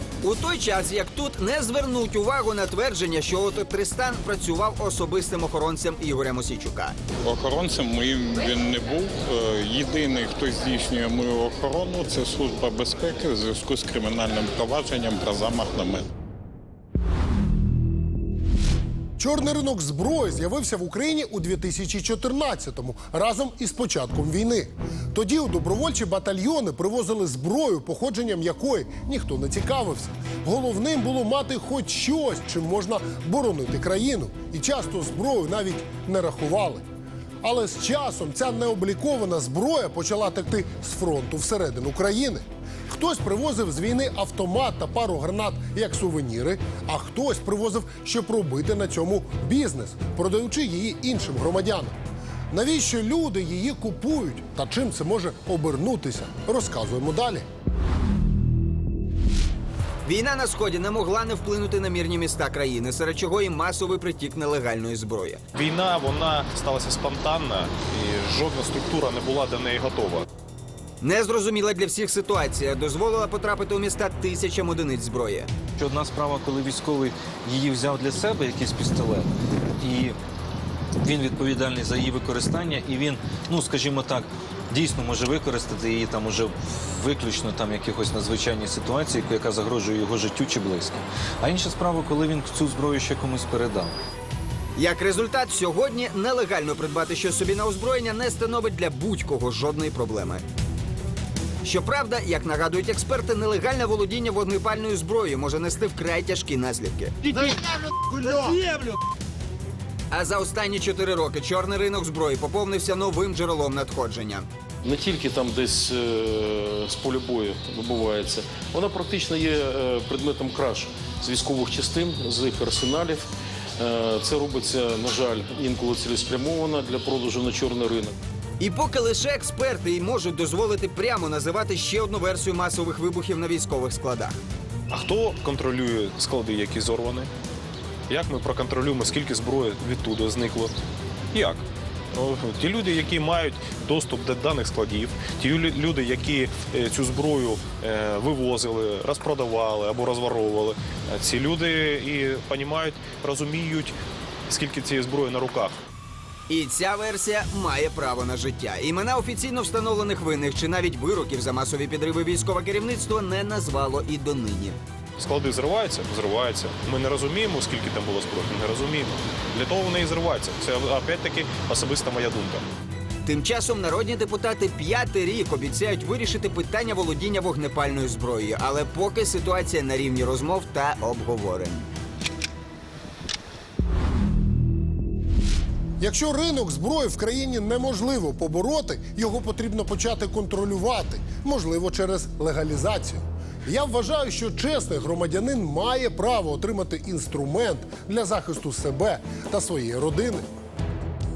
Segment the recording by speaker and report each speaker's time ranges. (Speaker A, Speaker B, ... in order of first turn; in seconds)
Speaker A: 0.2-7.0, 60.0-65.4, 71.0-75.5, 94.8-100.4, 101.6-107.4, 110.1-114.5, 128.6-134.4, 156.5-164.8, 173.2-181.9
Speaker B: 7.2-16.1
Speaker C: 19.2-36.8, 37.4-51.9, 52.5-57.4, 186.0-200.4
Speaker D: 65.5-70.2, 134.9-137.3, 138.1-140.7, 141.3-153.9, 154.5-155.7, 165.2-172.6
Speaker E: 75.8-80.2, 81.0-94.0
Speaker F: 114.8-123.3, 123.8-128.2